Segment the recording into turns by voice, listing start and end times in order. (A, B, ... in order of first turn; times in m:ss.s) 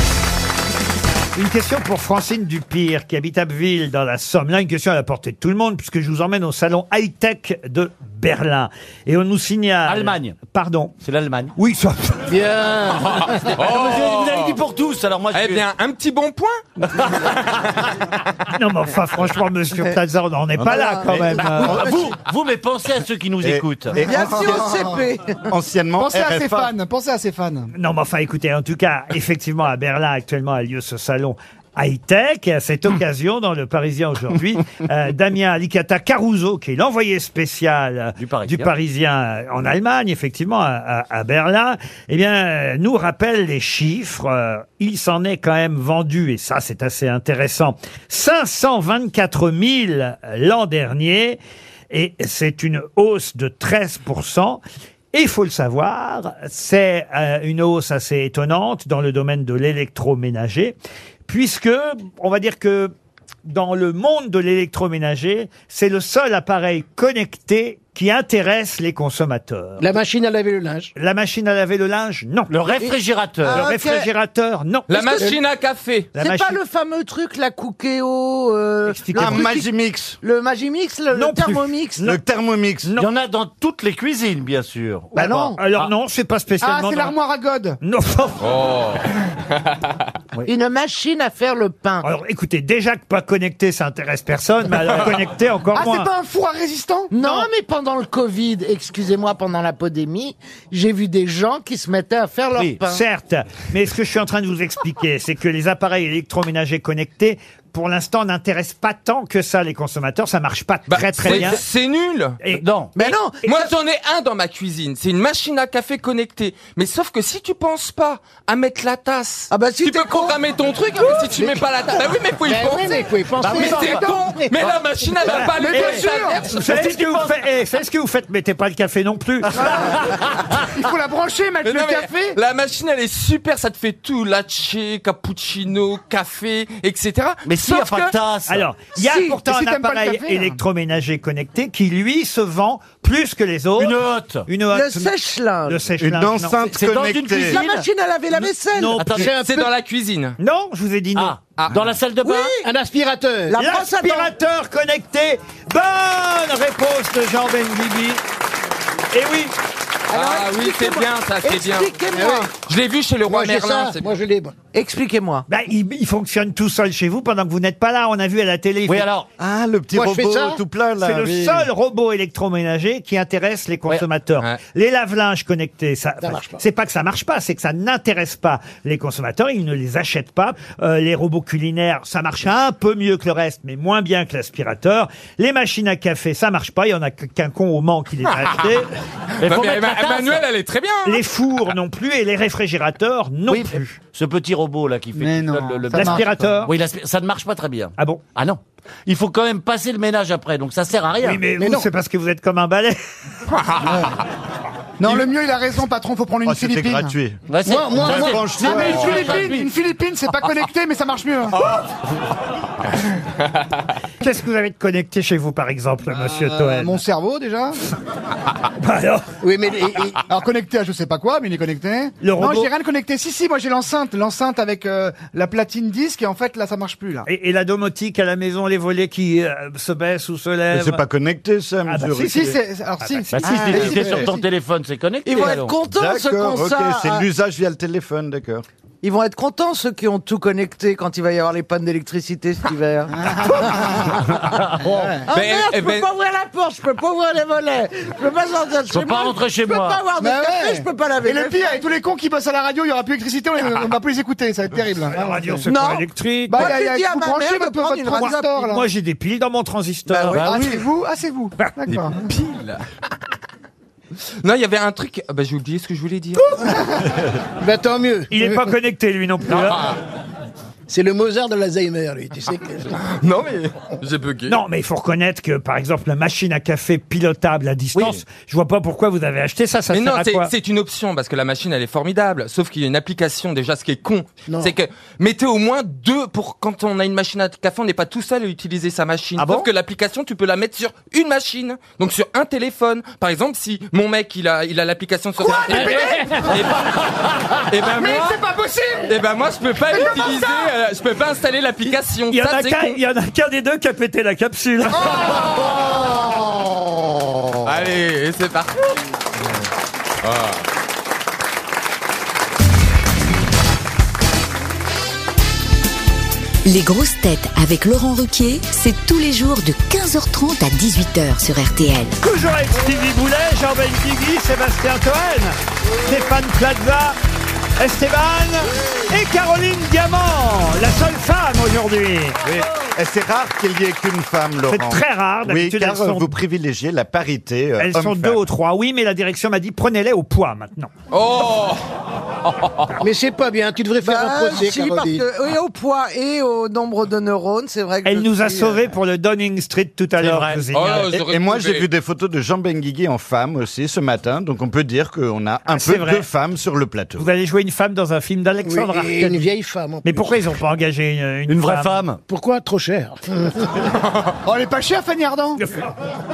0:01.4-0:11.0 A
0:09.9-0:10.4 B
0:11.0-0:11.5 B
0:11.6-0:12.3 A
0:12.3-0:13.5 C
0:13.1-0:14.6 D
0:13.5-0:15.6 B
0:15.3-0:16.6 D
0:16.9-0:17.7 B
0:18.5-0:21.9 A
0:21.1-0:24.1 B
0:23.4-0:23.7 E
0:24.0-0:25.4 F
0:24.0-0:25.0 G
0:25.5-0:26.7 E
0:26.0-0:27.7 G
0:27.8-0:51.4 A
0:38.2-0:38.7 B
0:51.9-0:54.6 A
0:55.1-1:00.8 A
1:01.3-1:02.9 A
1:03.5-1:09.9 A
1:09.8-1:10.9 C
1:11.0-1:12.5 A
1:12.5-1:13.7 B
1:13.5-1:14.1 F
1:13.5-1:15.2 A
1:14.9-1:16.1 D
1:16.2-1:16.6 A
1:16.2-1:19.7 F
1:18.9-1:19.5 A
1:19.2-1:20.2 E
1:20.2-1:22.1 F
1:21.1-1:22.2 A
1:22.0-1:22.9 E
1:23.0-1:25.9 B
1:25.2-1:27.2 A
1:25.2-1:25.6 G
1:26.6-1:27.8 G
1:27.8-1:28.4 A
1:28.4-1:29.9 D
1:30.4-1:32.1 F
1:32.0-1:36.1 A
1:35.7-1:37.4 G
1:37.1-1:43.0 F
1:42.9-1:51.6 A
1:50.9-1:52.4 D
1:51.3-1:51.6 B
1:52.5-1:53.0 B
1:53.0-1:53.7 F
1:53.4-2:06.5 D
1:59.5-2:00.4 F
2:00.9-2:01.6 F
2:02.4-2:04.5 C
2:03.4-2:03.8 F
2:03.4-2:04.0 B
2:05.3-2:10.0 A
2:05.4-2:06.5 G
2:06.6-2:07.4 B
2:09.6-2:10.5 B
2:09.8-2:12.4 G
2:11.6-2:18.1 D
2:17.4-2:18.7 B
2:18.5-2:25.1 A
2:19.0-2:19.3 F
2:19.2-2:20.6 G
2:23.8-2:24.5 B
2:24.7-2:25.8 F
2:25.7-2:26.7 A
2:26.0-2:27.6 E
2:26.7-2:27.9 B
2:27.4-2:29.4 F
2:28.4-2:29.3 A
2:29.0-2:29.4 B
2:29.2-2:29.7 C
2:29.4-2:30.4 D
2:30.4-2:31.4 A
2:31.2-2:32.6 B
2:32.2-2:32.7 F
2:32.6-2:33.6 C
2:33.5-2:34.3 F
2:33.5-2:38.2 A
2:39.1-2:39.5 A
2:40.1-2:42.5 F
2:40.1-2:44.1 D
2:43.3-2:44.6 C
2:44.7-2:45.5 F
2:45.5-2:49.1 A
2:48.9-2:49.3 B
2:49.4-2:51.7 E
2:49.9-2:50.6 C
2:51.0-3:08.9 A
2:56.2-2:56.6 C
3:09.4-3:11.2 D
3:09.4-3:10.4 B
3:11.0-3:14.0 A
3:13.5-3:21.5 B
3:15.2-3:16.3 G
3:15.9-3:16.7 A
3:18.0-3:18.2 A
3:21.2-3:23.0 A
3:21.5-3:21.9 C
3:23.8-3:24.1 G
3:25.0-3:27.2 G
3:26.5-3:27.5 E
3:27.5-3:29.7 B
3:27.6-3:29.0 C
3:28.0-3:29.4 E
3:28.6-3:31.6 G
3:34.2-3:37.0 A
3:36.1-3:37.8 G
3:38.8-3:39.3 A
3:39.4-3:40.2 C
3:40.3-3:47.3 G
3:42.2-3:42.7 A
3:47.3-3:51.0 A
3:50.7-3:52.6 E
3:51.9-3:54.1 A
3:52.2-3:54.5 G
3:53.3-3:55.8 B
3:55.3-3:57.2 F
3:55.8-3:58.6 E
3:59.0-4:04.0 F
4:03.1-4:04.2 G
4:04.7-4:05.2 B
4:04.9-4:05.3 G
4:05.3-4:11.8 F
4:05.3-4:06.1 D
4:08.9-4:10.0 B
4:10.2-4:15.7 G
4:15.1-4:16.8 A
4:15.7-4:18.6 F
4:16.5-4:18.9 G
4:18.2-4:20.5 A
4:20.3-4:20.8 B
4:20.3-4:22.3 G
4:22.2-4:22.8 D
4:24.4-4:26.7 D
4:27.6-4:28.6 C
4:28.3-4:29.9 A
4:29.6-4:30.0 D
4:30.9-4:33.0 C
4:33.1-4:34.6 D
4:34.5-4:40.5 A
4:38.0-4:38.2 B
4:39.9-4:57.1 D
4:44.5-4:44.7 C
4:49.4-4:49.7 B
4:55.4-4:56.6 G
4:57.6-4:58.4 D
4:57.8-4:59.1 G
4:59.1-5:03.0 D
4:59.9-5:00.7 G
5:02.3-5:05.2 A
5:05.2-5:05.6 G
5:07.6-5:08.9 D
5:10.2-5:10.6 D
5:16.6-5:22.2 H
5:22.2-5:27.2 A
5:27.8-5:32.4 A
5:32.4-5:38.4 E
5:34.7-5:36.3 A
5:37.8-5:40.9 A
5:41.1-5:41.8 D
5:42.4-5:42.9 D
5:43.0-5:45.3 C
5:44.0-5:48.8 F
5:48.0-5:51.2 A
5:50.2-5:50.6 B
5:50.7-5:51.9 D
5:51.1-5:57.3 E
5:55.7-5:56.3 A
5:57.2-5:59.5 A
5:58.6-6:00.3 C
6:00.0-6:02.0 A
6:01.5-6:02.2 B
6:02.3-6:03.9 C
6:04.4-6:05.6 G